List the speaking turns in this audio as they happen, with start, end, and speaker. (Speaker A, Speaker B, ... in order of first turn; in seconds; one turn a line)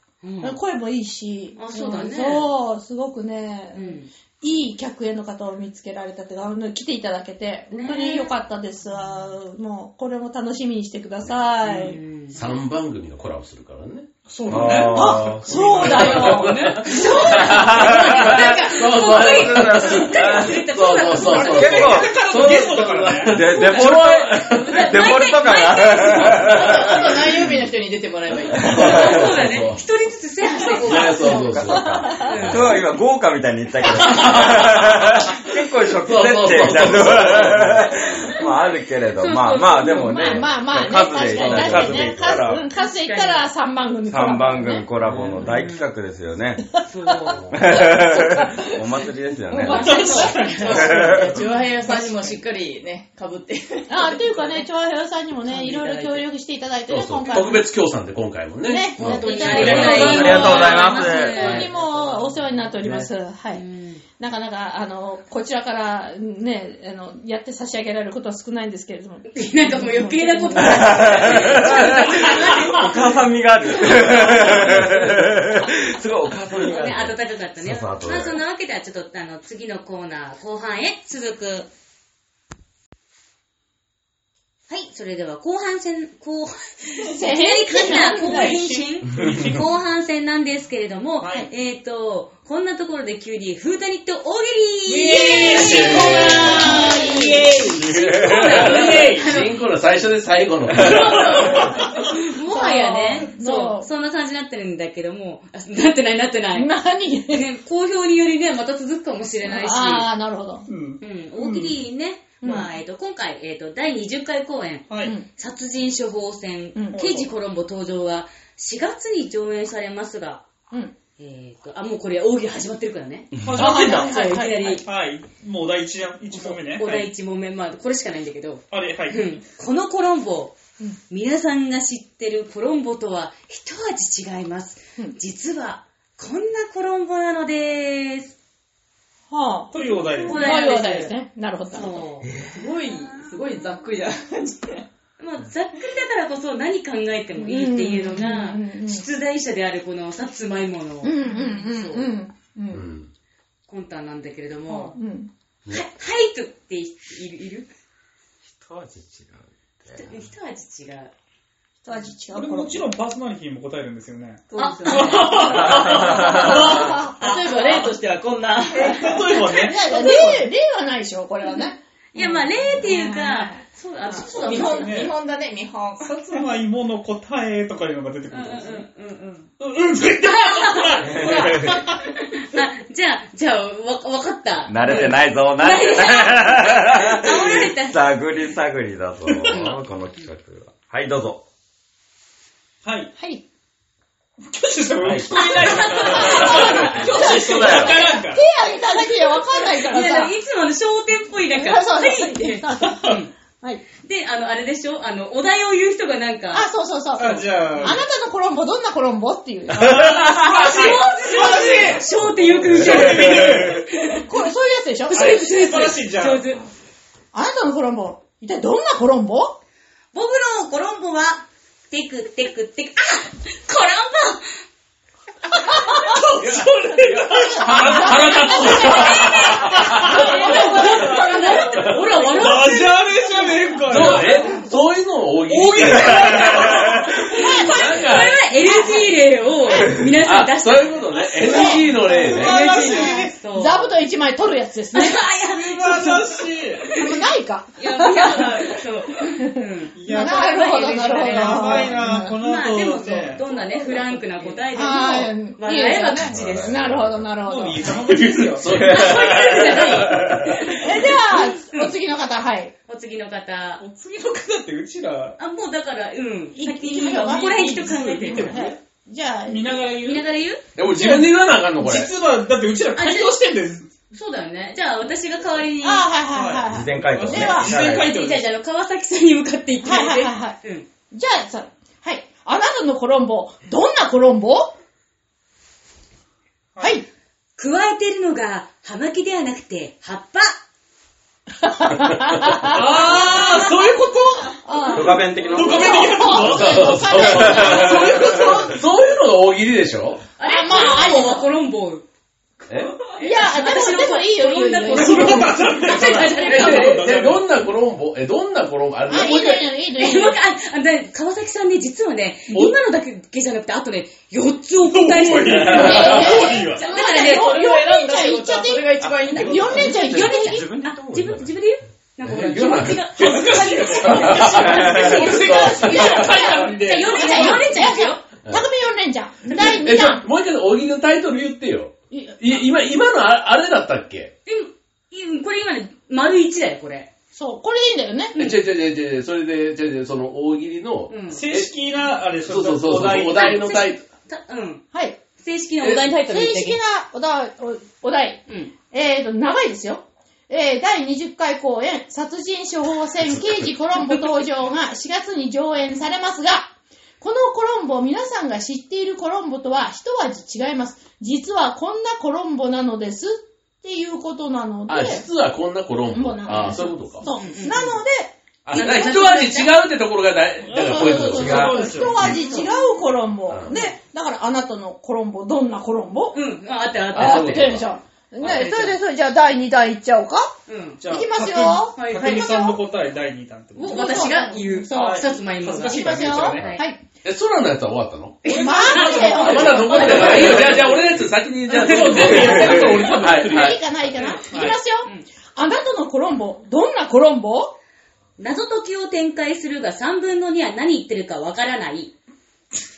Speaker A: 0.2-0.6
Speaker B: 0.4-12.0
Speaker A: 1.6-2.5
Speaker A: 3.7-4.1
Speaker A: 7.7-8.3
Speaker A: 11.6-12.5
Speaker C: 12.3-14.1
Speaker D: 14.3-16.3
Speaker E: 14.5-16.4
Speaker B: 14.9-17.9
Speaker C: 15.8-24.9
Speaker A: 15.9-22.0
Speaker E: 17.3-20.6
Speaker D: 21.2-23.6
Speaker E: 21.3-27.1
Speaker A: 23.7-26.9
Speaker F: 26.3-29.2
Speaker C: 27.2-27.6
Speaker C: 28.5-29.8
Speaker A: 28.7-31.4
Speaker C: 30.8-32.8
Speaker E: 30.9-42.6
Speaker B: 31.2-32.2
Speaker A: 32.2-32.8
Speaker C: 33.9-35.2
Speaker C: 36.0-37.9
Speaker A: 39.1-40.5
Speaker B: 39.8-44.8
Speaker C: 41.4-42.0
Speaker A: 41.7-43.5
Speaker E: 44.0-46.7
Speaker C: 45.0-45.4
Speaker A: 45.2-45.9
Speaker A: 46.9-47.4
Speaker B: 47.3-48.5
Speaker E: 47.5-50.0
Speaker D: 49.6-51.3
Speaker A: 49.6-51.0
Speaker F: 49.7-54.4
Speaker E: 50.7-51.4
Speaker B: 53.9-57.7
Speaker A: 55.4-56.2
Speaker C: 56.9-60.7
Speaker B: 58.6-63.6
Speaker A: 59.0-61.7
Speaker E: 59.5-61.7
Speaker C: 61.4-62.2
Speaker A: 63.5-64.0
Speaker B: 64.2-71.6
Speaker A: 69.3-73.1
Speaker E: 70.5-78.4
Speaker A: 73.7-74.9
Speaker A: 76.6-81.7
Speaker A: 84.7-99.7
Speaker B: 87.1-88.6
Speaker D: 87.7-89.7
Speaker D: 91.2-91.5
Speaker D: 94.8-99.4
Speaker B: 95.5-97.3
Speaker E: 97.7-98.7
Speaker C: 98.8-101.5
Speaker A: 100.8-106.7
Speaker B: 102.5-103.9
Speaker B: 106.5-107.4
Speaker A: 107.3-110.1
Speaker B: 109.4-110.7
Speaker D: 110.7-111.8
Speaker A: 111.0-120.4
Speaker B: 112.4-112.7
Speaker D: 114.9-115.1
Speaker B: 115.0-115.2
Speaker B: 116.7-117.1
Speaker D: 116.9-117.3
Speaker A: 121.2-124.8
Speaker D: 123.4-127.1
Speaker B: 123.5-124.8
Speaker A: 126.3-130.5
Speaker D: 128.7-129.4
Speaker A: 131.1-138.3
Speaker B: 139.3-142.0
Speaker D: 139.7-140.8
Speaker A: 140.2-141.1
Speaker A: 141.7-142.3
Speaker F: 142.4-144.8
Speaker A: 145.2-152.1
Speaker B: 147.4-149.1
Speaker B: 151.0-152.9
Speaker C: 152.7-153.1
Speaker A: 153.7-154.9
Speaker B: 154.7-155.3
Speaker A: 155.7-157.7
Speaker E: 158.4-160.1
Speaker A: 159.9-161.1
Speaker B: 161.8-162.9
Speaker D: 162.3-167.0
Speaker F: 164.5-170.4
Speaker A: 164.5-167.8
Speaker E: 165.5-166.7
Speaker B: 166.1-167.2
Speaker D: 168.7-170.2
Speaker B: 169.4-173.5
Speaker A: 171.4-175.0
Speaker F: 174.1-176.4
Speaker D: 174.4-175.1
Speaker D: 176.0-178.8
Speaker A: 178.3-179.5
Speaker D: 179.6-181.8
Speaker A: 180.2-188.1
Speaker E: 181.1-181.8
Speaker E: 184.7-191.4
Speaker D: 189.2-189.7
Speaker D: 192.8-193.1
Speaker B: 193.2-193.4
Speaker D: 194.4-198.4
Speaker C: 195.0-195.3
Speaker A: 195.3-197.2
Speaker B: 196.2-200.3
Speaker C: 196.4-197.1
Speaker E: 197.2-198.0
Speaker A: 199.0-203.3
Speaker B: 201.5-203.8
Speaker A: 204.0-206.7
Speaker B: 206.5-212.0
Speaker D: 207.2-208.0
Speaker D: 209.7-213.9
Speaker E: 209.8-210.4
Speaker A: 210.3-214.5
Speaker B: 214.1-215.3
Speaker A: 215.1-216.6
Speaker D: 215.1-216.6
Speaker B: 217.3-219.6
Speaker A: 220.1-224.5
Speaker D: 226.0-231.4
Speaker C: 226.4-230.2
Speaker B: 227.6-231.8
Speaker A: 228.5-233.0
Speaker F: 230.6-231.0
Speaker C: 231.6-232.0
Speaker D: 232.3-234.7
Speaker C: 233.9-238.5
Speaker D: 235.4-237.3
Speaker B: 237.3-238.1
Speaker A: 237.3-244.0
Speaker B: 238.6-239.1
Speaker C: 239.8-242.7
Speaker B: 241.4-245.2
Speaker D: 242.0-243.3
Speaker A: 244.9-247.2
Speaker D: 245.5-246.9
Speaker B: 246.9-248.6
Speaker A: 247.7-256.9
Speaker B: 249.3-252.4
Speaker D: 249.9-254.6
Speaker B: 254.7-258.0
Speaker E: 256.2-257.3
Speaker D: 257.4-261.9
Speaker C: 257.8-260.5
Speaker E: 258.6-260.6
Speaker A: 258.9-260.7
Speaker B: 260.7-262.7
Speaker A: 262.9-263.8
Speaker D: 263.8-265.4
Speaker A: 265.4-268.7
Speaker B: 266.6-269.8
Speaker D: 267.1-268.8
Speaker D: 269.5-270.2
Speaker A: 269.9-270.6
Speaker C: 270.8-272.1
Speaker D: 270.8-273.9
Speaker A: 272.9-273.3
Speaker A: 274.1-276.1
Speaker B: 275.8-277.8
Speaker D: 276.3-278.4
Speaker E: 276.7-278.1
Speaker A: 277.8-280.9
Speaker B: 279.8-280.6
Speaker B: 281.1-284.7
Speaker B: 286.8-287.0
Speaker A: 287.6-290.6
Speaker B: 291.6-292.8
Speaker D: 292.5-298.8
Speaker A: 292.8-293.9
Speaker B: 294.6-298.4
Speaker E: 294.9-296.2
Speaker C: 296.2-300.2
Speaker E: 297.2-298.6
Speaker A: 300.4-302.1
Speaker B: 300.4-301.5
Speaker C: 302.7-303.0
Speaker A: 303.1-307.1
Speaker B: 303.2-306.4
Speaker D: 304.9-307.5
Speaker C: 306.5-309.6
Speaker B: 309.1-310.4
Speaker A: 309.1-317.6
Speaker D: 314.9-316.9
Speaker C: 315.6-316.3
Speaker B: 315.7-320.7
Speaker F: 316.9-320.0
Speaker A: 319.6-328.2
Speaker C: 319.8-320.3
Speaker E: 320.1-321.5
Speaker C: 322.2-326.7
Speaker D: 323.1-327.7
Speaker B: 326.0-330.2
Speaker C: 329.5-334.3
Speaker B: 332.1-332.4
Speaker A: 334.4-337.1
Speaker B: 337.3-338.5
Speaker C: 338.3-341.7
Speaker A: 341.1-341.4
Speaker D: 341.3-343.7
Speaker C: 342.4-344.0
Speaker A: 343.3-344.8
Speaker A: 345.4-346.8
Speaker F: 345.9-346.2
Speaker B: 346.2-356.7
Speaker A: 348.5-348.7
Speaker B: 357.2-365.2
Speaker C: 364.9-367.3
Speaker B: 366.1-368.9
Speaker A: 367.3-368.0
Speaker C: 368.6-372.6
Speaker A: 368.7-369.7
Speaker D: 370.7-372.4
Speaker B: 370.7-376.4
Speaker E: 371.4-372.0
Speaker A: 372.1-372.9
Speaker C: 373.5-373.8
Speaker A: 376.3-377.8
Speaker B: 377.1-380.5
Speaker C: 377.1-377.9
Speaker A: 378.4-378.9
Speaker A: 380.7-381.0
Speaker D: 381.0-386.8
Speaker B: 381.1-382.8
Speaker A: 381.9-382.6
Speaker A: 383.7-386.9
Speaker B: 383.8-387.0
Speaker C: 387.2-388.4
Speaker A: 388.4-392.8
Speaker D: 388.4-390.9
Speaker B: 388.5-390.8
Speaker C: 389.1-393.9
Speaker D: 391.7-393.8
Speaker B: 393.3-397.7
Speaker A: 394.1-395.2
Speaker D: 394.3-394.8
Speaker A: 398.4-402.1